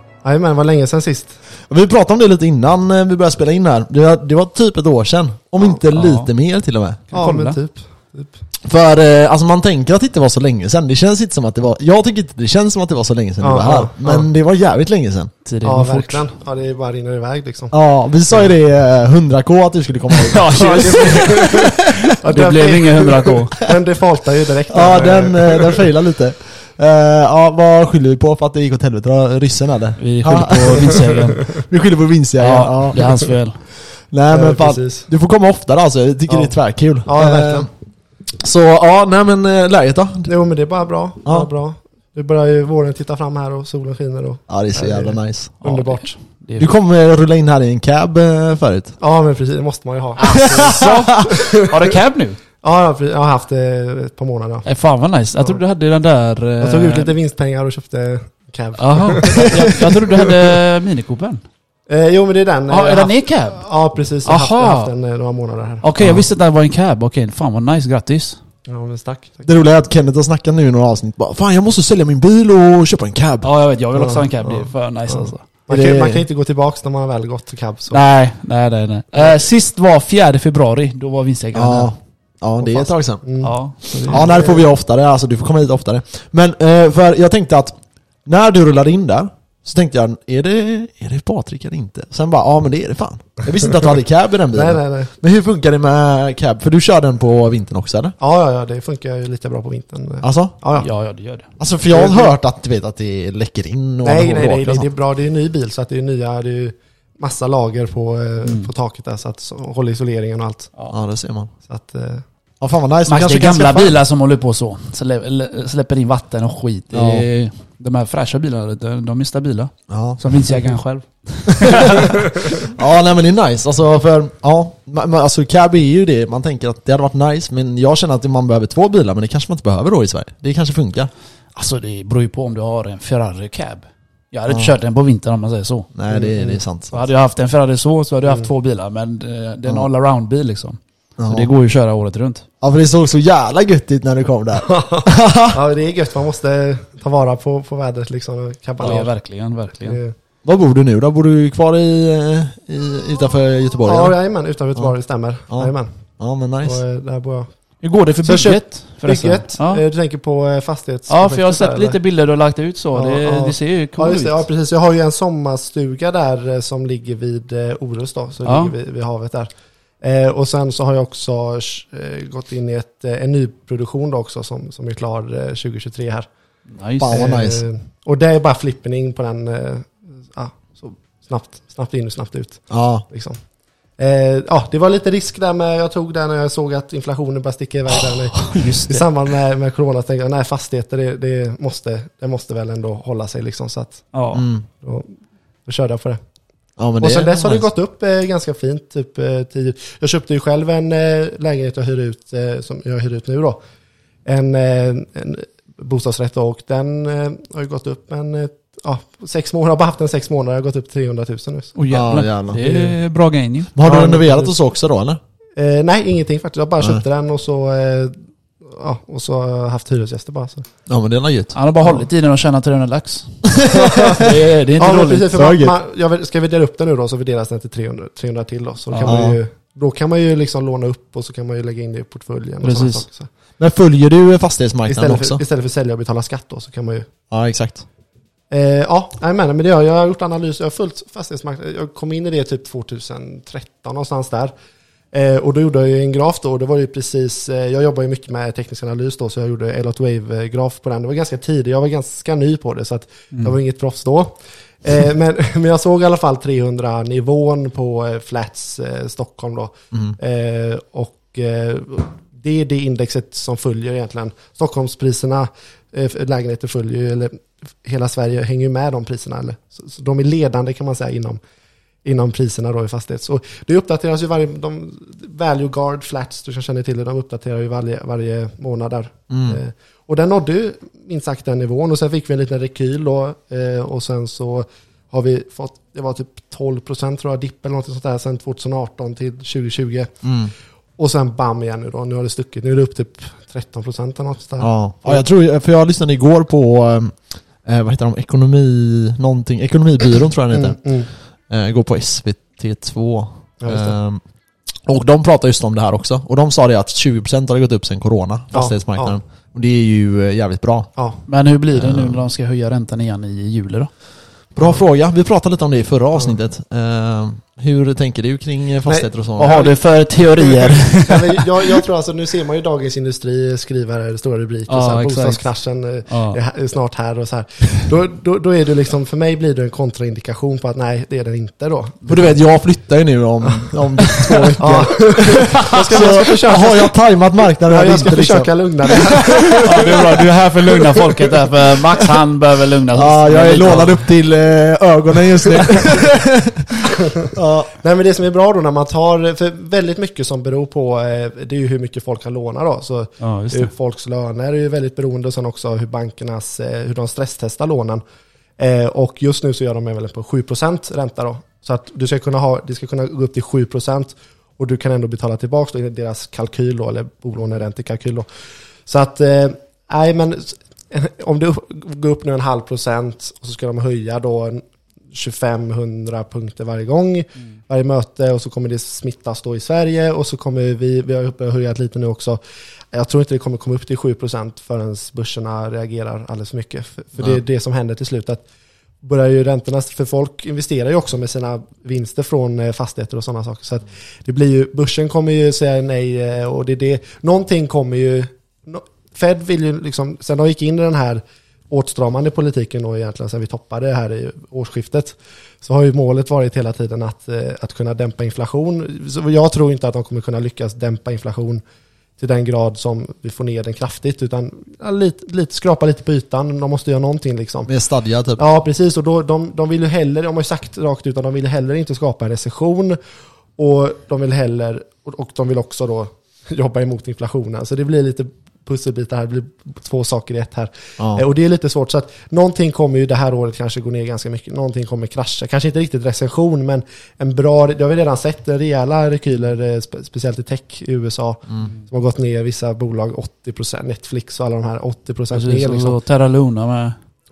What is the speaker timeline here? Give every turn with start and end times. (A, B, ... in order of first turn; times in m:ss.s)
0:00.2-0:01.4 A
0:01.7-0:07.0 B
0:05.9-0:06.3 C
0:07.1-0:07.6 C
0:07.1-0:08.4 A
0:08.6-0:15.3 B
0:13.4-0:14.3 A
0:15.4-0:16.2 C
0:15.6-0:17.7 A
0:17.7-0:21.5 B
0:20.2-0:23.6 C
0:20.5-0:25.8 A
0:24.7-0:33.4 B
0:30.0-0:31.7 C
0:32.4-0:33.8 C
0:33.9-0:37.7 B
0:34.3-0:35.1 A
0:36.3-0:37.7 A
0:38.4-0:40.3 B
0:40.2-0:46.1 A
0:44.5-0:45.7 B
0:45.6-0:46.7 C
0:46.6-0:49.0 B
0:49.0-0:51.7 A
0:50.2-0:52.4 C
0:50.3-0:51.3 B
0:52.6-0:54.7 A
0:54.6-0:57.1 C
0:56.6-1:00.2 A
0:58.8-1:01.4 C
1:01.9-1:05.9 A
1:02.7-1:03.7 C
1:04.2-1:04.9 C
1:05.8-1:08.4 C
1:06.0-1:06.3 B
1:08.7-1:09.5 A
1:09.4-1:13.5 B
1:13.4-1:15.4 C
1:13.9-1:18.0 A
1:15.7-1:16.2 B
1:17.9-1:22.0 C
1:19.1-1:19.4 A
1:21.5-1:23.4 B
1:22.6-1:24.6 A
1:23.4-1:24.2 C
1:24.0-1:38.1 B
1:34.5-1:35.1 A
1:38.2-1:40.9 A
1:40.2-1:40.6 B
1:40.8-1:41.5 C
1:41.6-1:44.9 B
1:41.9-1:42.3 A
1:44.0-1:50.7 A
1:48.4-1:48.7 C
1:50.9-1:51.5 B
1:51.6-1:52.2 A
1:52.6-1:54.0 B
1:53.1-2:02.6 C
1:56.9-1:57.2 B
1:59.9-2:00.7 B
2:01.7-2:02.0 B
2:02.6-2:11.1 B
2:11.5-2:15.9 C
2:14.5-2:14.7 B
2:15.9-2:17.0 B
2:16.1-2:16.6 A
2:16.9-2:22.4 C
2:21.2-2:21.5 B
2:22.6-2:25.6 B
2:24.6-2:29.2 A
2:28.8-2:30.0 C
2:29.8-2:30.1 A
2:30.4-2:34.2 B
2:33.8-2:35.9 A
2:35.5-2:36.8 B
2:36.6-2:42.0 A
2:37.8-2:39.8 C
2:41.1-2:44.4 C
2:42.9-2:56.3 A
2:48.4-2:48.7 C
2:56.7-2:57.3 C
2:57.0-2:57.6 B
2:57.1-3:03.4 A
3:02.7-3:03.0 B
3:04.0-3:14.1 A
3:08.0-3:09.0 C
3:14.1-3:14.4 C
3:14.3-3:14.6 B
3:14.8-3:15.1 A
3:15.6-3:16.2 A
3:16.8-3:17.6 B
3:17.0-3:23.6 A
3:24.2-3:31.8 A
3:31.8-3:33.8 C
3:31.9-3:32.6 B
3:32.5-3:33.0 A
3:33.8-3:35.2 B
3:33.8-3:34.5 A
3:35.6-3:40.7 A
3:40.9-3:42.0 B
3:41.5-3:45.3 C
3:43.6-3:44.3 B
3:43.7-3:53.3 A
3:45.3-3:45.7 B
3:48.9-3:49.2 C
3:49.0-3:49.4 B
3:52.6-3:53.0 C
3:53.6-3:55.4 B
3:54.9-3:57.1 A
3:57.3-3:57.8 B
3:58.5-4:04.5 A
4:05.1-4:31.4 A
4:32.0-4:50.2 A
4:39.3-4:39.6 B
4:50.2-4:50.5 B
4:51.0-4:55.2 A
4:54.6-5:04.2 B
5:00.5-5:01.1 A
5:03.6-5:04.0 A
5:04.8-5:10.9 B
5:08.5-5:09.2 A
5:11.0-5:11.2 A
5:11.3-5:13.9 C
5:11.7-5:12.2 B
5:14.5-5:19.6 B
5:18.8-5:19.8 A
5:19.4-5:21.8 C
5:20.3-5:32.0 A
5:24.7-5:25.5 C
5:26.1-5:26.4 C
5:32.0-5:32.3 C
5:32.1-5:38.5 B
5:34.6-5:36.9 A
5:37.6-5:41.2 A
5:39.4-5:40.3 B
5:39.5-5:44.0 C
5:42.9-5:46.7 B
5:47.0-5:58.0 A
5:47.3-5:47.7 B
5:53.2-5:53.7 C
5:58.6-6:08.3 A
6:08.8-6:22.4 A
6:22.9-6:28.4 A
6:29.0-6:51.6 A
6:52.2-6:57.7 A
6:57.7-6:58.4 B
6:58.4-7:03.0 A
7:03.6-7:26.0 A
7:25.3-7:27.0 C